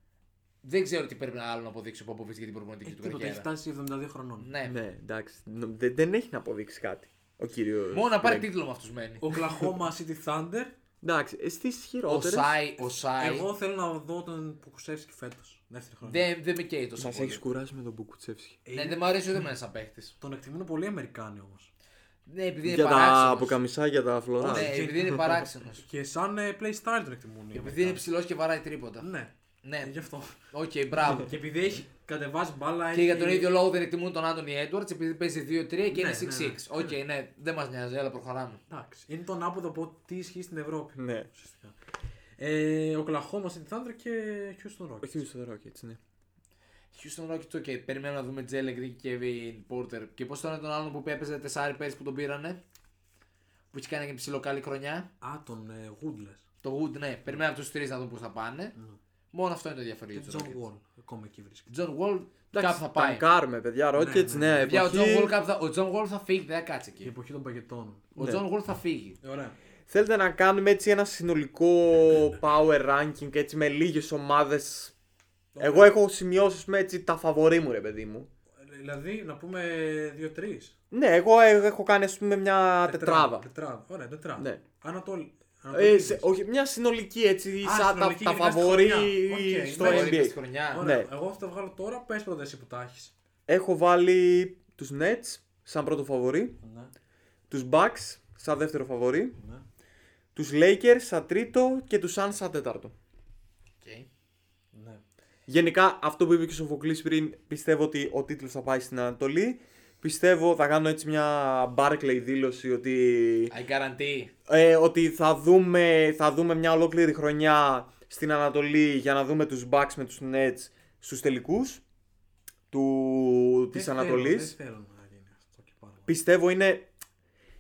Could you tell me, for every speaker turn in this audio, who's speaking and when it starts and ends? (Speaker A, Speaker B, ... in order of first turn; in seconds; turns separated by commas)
Speaker A: 0.6-3.5, Speaker B: 2.9-4.5, Speaker A: 4.4-4.8, Speaker C: 4.7-8.5, Speaker A: 7.9-9.3, Speaker B: 9.2-10.7, Speaker C: 11.0-12.5, Speaker A: 12.1-13.5, Speaker B: 12.8-16.3, Speaker A: 16.1-17.4, Speaker C: 17.0-18.6, Speaker B: 18.6-19.5, Speaker A: 18.7-20.1, Speaker B: 20.2-21.7, Speaker A: 22.3-23.6, Speaker C: 22.6-24.7, Speaker A: 24.4-25.8, Speaker B: 24.4-28.0, Speaker A: 27.5-29.1, Speaker B: 29.0-30.5, Speaker A: 29.6-29.9, Speaker A: 30.5-31.3, Speaker B: 31.1-33.5, Speaker A: 32.9-38.6, Speaker B: 35.9-36.9, Speaker B: 38.7-41.7, Speaker C: 41.0-41.3, Speaker B: 42.4-45.2, Speaker C: 45.0-46.0, Speaker A: 46.9-52.6, Speaker A: 53.7-55.1, Speaker B: 55.2-56.5, Speaker A: 56.6-58.8, Speaker A: 59.3-60.6, Speaker B: 60.1-61.7, Speaker A: 61.7-63.2, Speaker C: 62.5-65.3, Speaker B: 64.0-64.7, Speaker A: 64.6-67.1, Speaker B: 67.0-68.1, Speaker C: 68.2-68.4, Speaker A: 68.2-69.2, Speaker B: 69.2-69.6, Speaker C: 69.9-74.9, Speaker B: 75.5-76.0, Speaker C: 75.6-78.3, Speaker B: 78.6-80.8, Speaker C: 80.9-83.5, Speaker B: 82.8-86.3, Speaker C: 84.4-84.6, Speaker C: 85.7-91.1, Speaker B: 87.6-93.1, Speaker A: 89.8-90.8, Speaker C: 93.5-96.6, Speaker B: 96.6-96.9, Speaker C: 97.5-99.4, Speaker C: 100.3-102.9, Speaker A: 103.8-104.1, Speaker B: 104.7-105.0, Speaker C: 105.5-113.5, Speaker A: 113.5-114.3, Speaker C: 114.5-121.8, Speaker C: 122.7-124.6, Speaker B: 123.7-126.2, Speaker C: 126.1-126.9